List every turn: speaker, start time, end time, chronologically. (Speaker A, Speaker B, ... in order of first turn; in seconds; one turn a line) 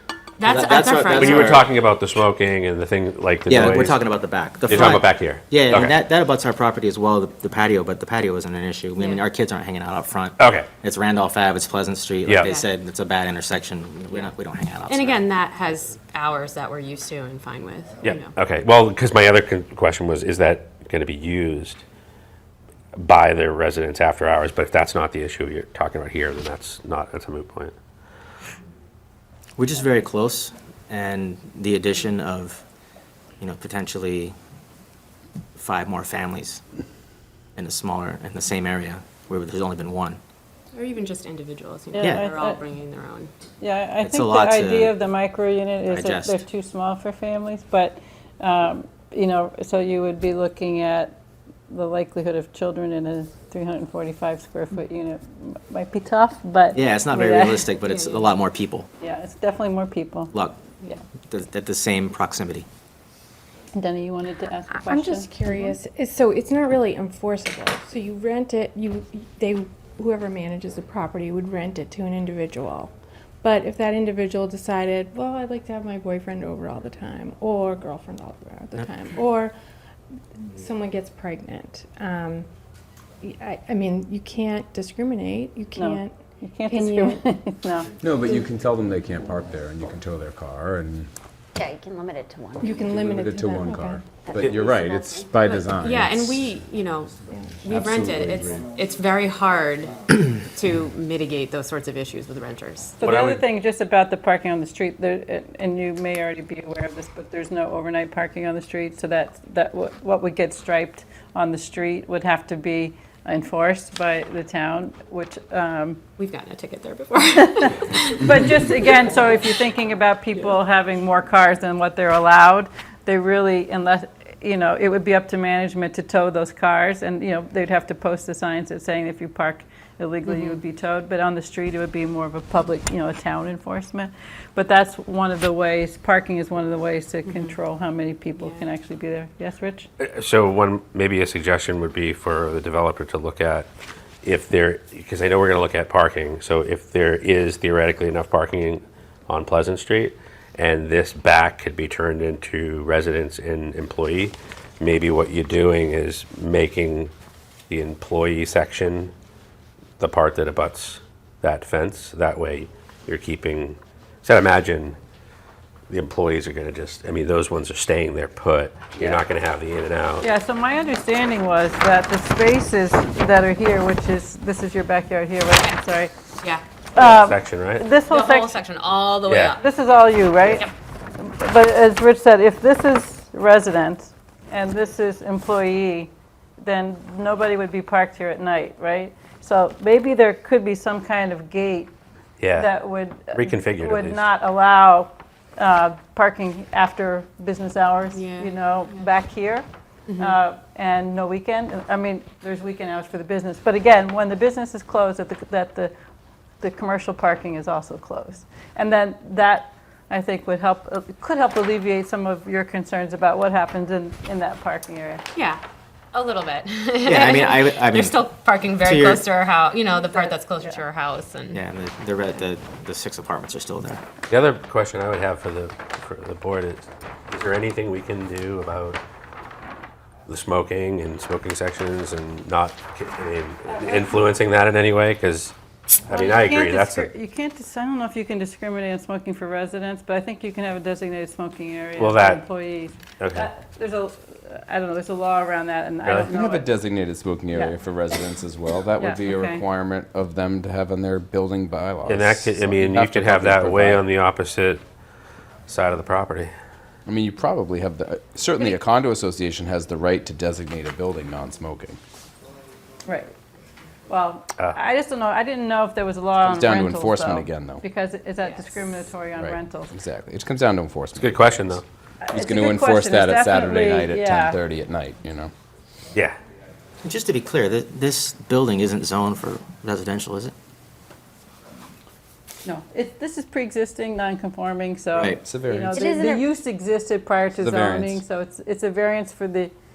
Speaker A: 0.4-1.6
Speaker B: 0.4-1.7
Speaker C: 1.2-4.0
Speaker B: 3.5-15.2
Speaker C: 4.7-6.0
Speaker A: 8.9-9.2
Speaker C: 10.4-10.7
Speaker C: 12.2-12.5
Speaker A: 12.4-12.7
Speaker A: 14.8-18.3
Speaker C: 18.0-21.8
Speaker C: 22.9-27.7
Speaker B: 29.6-32.6
Speaker B: 33.4-34.3
Speaker B: 35.5-36.6
Speaker B: 37.5-40.2
Speaker A: 40.7-43.3
Speaker B: 42.0-42.3
Speaker D: 42.0-42.6
Speaker D: 43.6-51.1
Speaker B: 44.0-45.0
Speaker B: 45.8-46.4
Speaker D: 51.7-57.7
Speaker B: 56.7-58.9
Speaker A: 57.9-58.2
Speaker D: 59.0-61.0
Speaker B: 60.3-60.8
Speaker B: 61.3-62.7
Speaker D: 63.7-65.3
Speaker E: 64.7-79.5
Speaker E: 80.3-82.5
Speaker E: 83.2-86.1
Speaker D: 85.8-87.9
Speaker E: 86.7-87.2
Speaker F: 88.0-91.1
Speaker G: 91.5-92.9
Speaker E: 92.6-94.6
Speaker F: 92.7-96.5
Speaker G: 94.6-95.2
Speaker A: 95.4-103.0
Speaker E: 97.3-97.6
Speaker F: 97.6-98.7
Speaker D: 103.0-116.0
Speaker C: 103.0-103.4
Speaker A: 116.2-119.3
Speaker D: 118.2-139.9
Speaker A: 130.2-130.6
Speaker A: 137.2-137.6
Speaker A: 138.4-138.7
Speaker C: 140.0-143.7
Speaker C: 144.2-157.1
Speaker C: 157.7-159.1
Speaker C: 160.0-165.0
Speaker C: 165.9-170.3
Speaker D: 168.9-169.2
Speaker D: 170.2-176.1
Speaker D: 176.9-178.6
Speaker C: 176.9-177.8
Speaker A: 178.0-179.6
Speaker C: 179.2-179.5
Speaker D: 179.5-191.9
Speaker A: 180.4-180.7
Speaker C: 192.4-192.7
Speaker D: 192.5-199.7
Speaker C: 193.3-194.2
Speaker A: 198.1-198.5
Speaker A: 200.1-200.4
Speaker D: 200.2-205.9
Speaker D: 206.6-215.2
Speaker A: 215.3-215.6
Speaker A: 216.1-221.6
Speaker B: 217.0-219.2
Speaker D: 220.1-220.8
Speaker B: 221.5-224.0
Speaker C: 224.3-229.0
Speaker C: 230.3-237.1
Speaker D: 233.7-234.2
Speaker D: 236.1-246.7
Speaker C: 242.0-242.4
Speaker C: 243.2-243.5
Speaker C: 246.0-246.3
Speaker F: 246.3-254.1
Speaker D: 249.0-249.6
Speaker C: 252.1-254.8
Speaker C: 255.7-256.5
Speaker F: 257.1-262.0
Speaker D: 263.1-263.3
Speaker D: 264.1-269.9
Speaker F: 266.4-267.8
Speaker A: 268.4-268.7
Speaker F: 269.4-271.8
Speaker C: 271.1-271.8
Speaker D: 272.2-274.6
Speaker F: 272.3-275.5
Speaker B: 277.0-280.5
Speaker D: 282.6-289.7
Speaker B: 285.1-285.4
Speaker F: 285.4-286.0
Speaker G: 285.9-286.5
Speaker F: 287.6-288.2